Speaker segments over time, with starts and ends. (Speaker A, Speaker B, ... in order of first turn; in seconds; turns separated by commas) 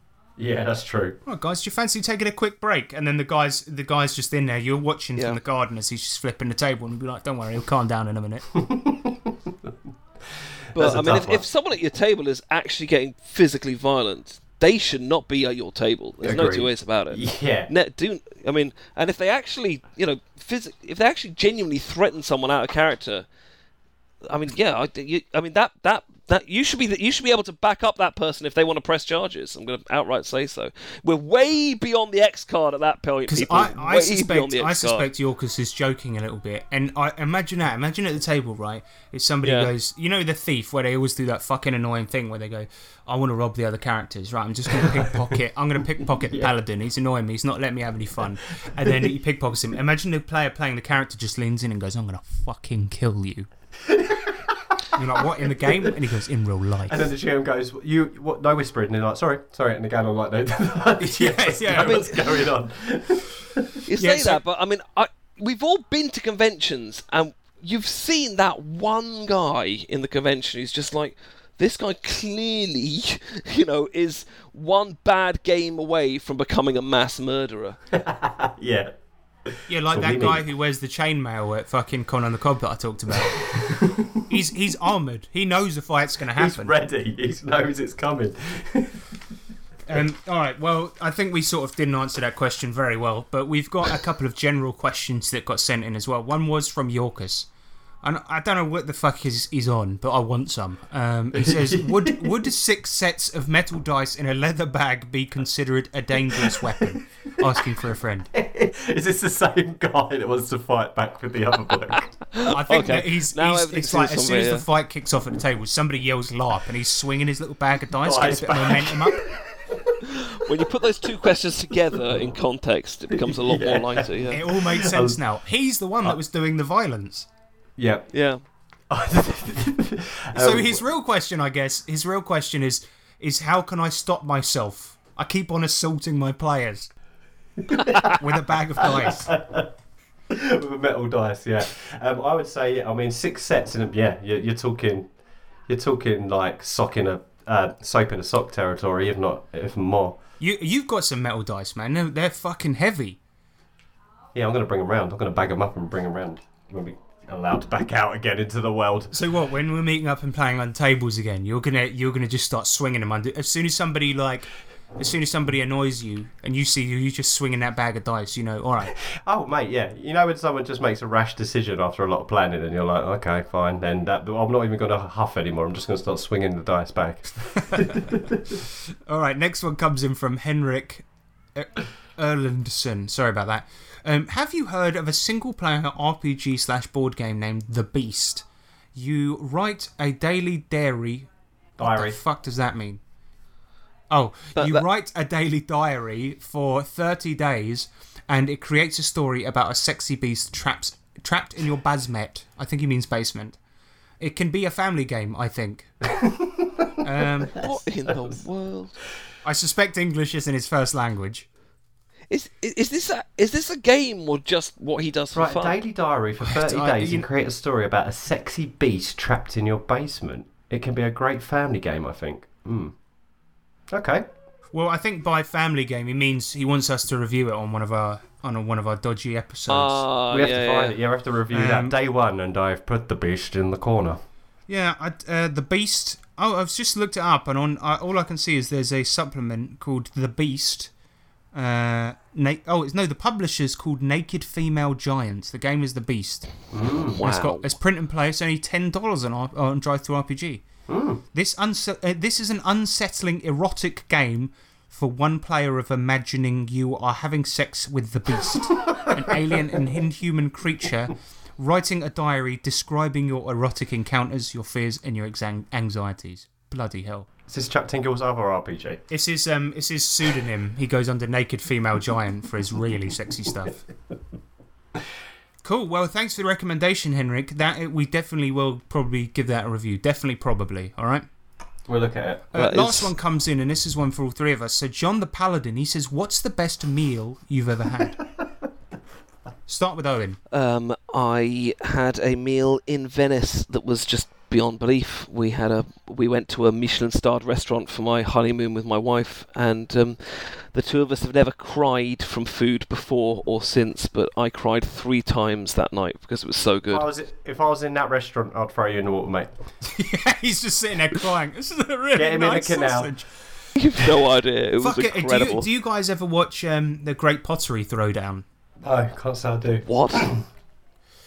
Speaker A: 0.4-1.2, Speaker B: 1.3-8.5, Speaker A: 8.6-9.3, Speaker C: 10.7-23.3, Speaker A: 10.7-11.5, Speaker A: 16.2-17.7, Speaker C: 24.3-35.1, Speaker B: 33.3-53.5, Speaker C: 39.4-39.7, Speaker A: 53.9-54.5, Speaker B: 54.9-57.1, Speaker A: 55.4-55.9, Speaker A: 56.9-63.6, Speaker B: 61.0-62.3, Speaker C: 61.8-62.0, Speaker C: 63.9-77.8, Speaker B: 64.0-64.4, Speaker A: 77.9-78.9, Speaker A: 79.5-80.4, Speaker B: 79.7-83.4, Speaker A: 83.1-84.2, Speaker B: 84.3-86.7, Speaker A: 86.3-89.0, Speaker B: 89.9-97.5, Speaker B: 98.0-108.3, Speaker A: 101.3-102.4, Speaker A: 106.4-107.7, Speaker A: 108.3-112.2, Speaker C: 112.3-114.7, Speaker B: 112.5-119.2, Speaker A: 118.0-120.1, Speaker C: 120.0-124.4, Speaker A: 123.2-125.2, Speaker B: 124.3-127.3, Speaker A: 127.8-128.1, Speaker C: 128.1-128.4, Speaker A: 128.9-130.8, Speaker B: 130.3-136.9, Speaker A: 137.7-138.2, Speaker B: 138.1-139.3, Speaker A: 138.8-139.7, Speaker A: 140.3-145.1, Speaker A: 145.7-150.2, Speaker B: 150.4-153.2, Speaker A: 154.3-159.1, Speaker B: 159.1-168.9, Speaker A: 169.0-178.6, Speaker B: 177.7-178.0, Speaker B: 179.1-191.3, Speaker A: 191.8-192.2, Speaker B: 191.8-193.0, Speaker B: 194.1-203.6, Speaker C: 194.6-194.8, Speaker B: 204.2-205.9, Speaker A: 206.2-206.9, Speaker B: 207.0-207.6, Speaker C: 207.6-209.0, Speaker B: 209.4-211.5, Speaker C: 212.3-215.8, Speaker A: 215.3-222.9, Speaker B: 216.4-217.3, Speaker A: 223.9-224.3, Speaker B: 224.7-230.1, Speaker C: 229.7-230.9, Speaker A: 230.3-234.2, Speaker B: 231.5-232.0, Speaker B: 234.7-240.9, Speaker B: 241.5-246.7, Speaker A: 246.7-247.5, Speaker C: 247.2-247.7, Speaker B: 247.2-250.7, Speaker A: 250.9-251.2, Speaker B: 251.3-267.3, Speaker A: 258.9-259.2, Speaker A: 267.5-269.0, Speaker B: 269.1-273.9, Speaker B: 275.6-281.3, Speaker A: 281.9-282.4, Speaker B: 282.5-288.2, Speaker C: 282.6-283.1, Speaker B: 289.7-290.4, Speaker C: 290.5-307.1, Speaker A: 306.9-309.5, Speaker B: 309.9-313.3, Speaker A: 312.1-313.2, Speaker C: 313.8-315.6, Speaker B: 314.8-318.4, Speaker A: 318.8-320.4, Speaker C: 319.9-320.3